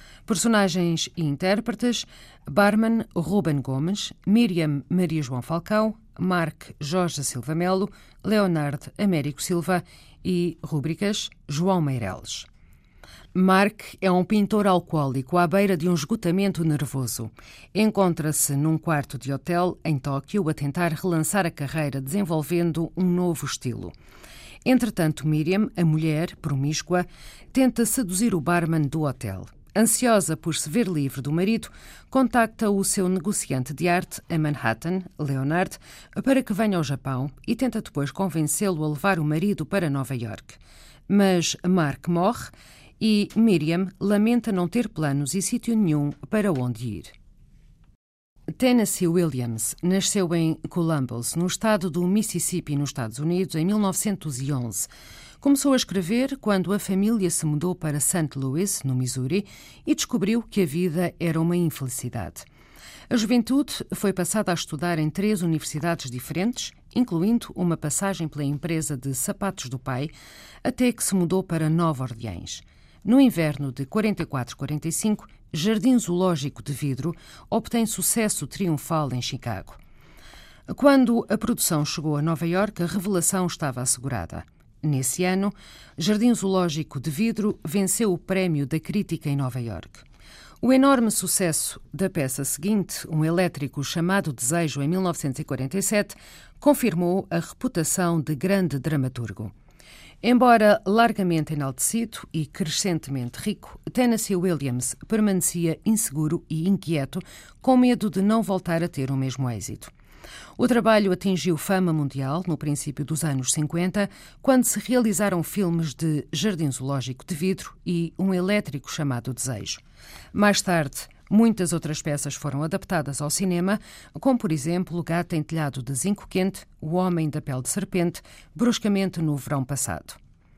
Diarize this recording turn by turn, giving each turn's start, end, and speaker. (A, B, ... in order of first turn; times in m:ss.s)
0:00.3-0:12.5 A
0:13.4-0:23.9 A
0:24.6-0:47.1 A
0:48.5-0:54.9 A
0:55.4-1:02.5 A
1:03.1-1:10.1 A
1:10.6-1:19.8 A
1:20.7-1:30.0 A
1:30.6-1:39.5 A
1:40.2-1:49.9 A
1:50.6-1:59.8 A
2:00.3-2:10.2 A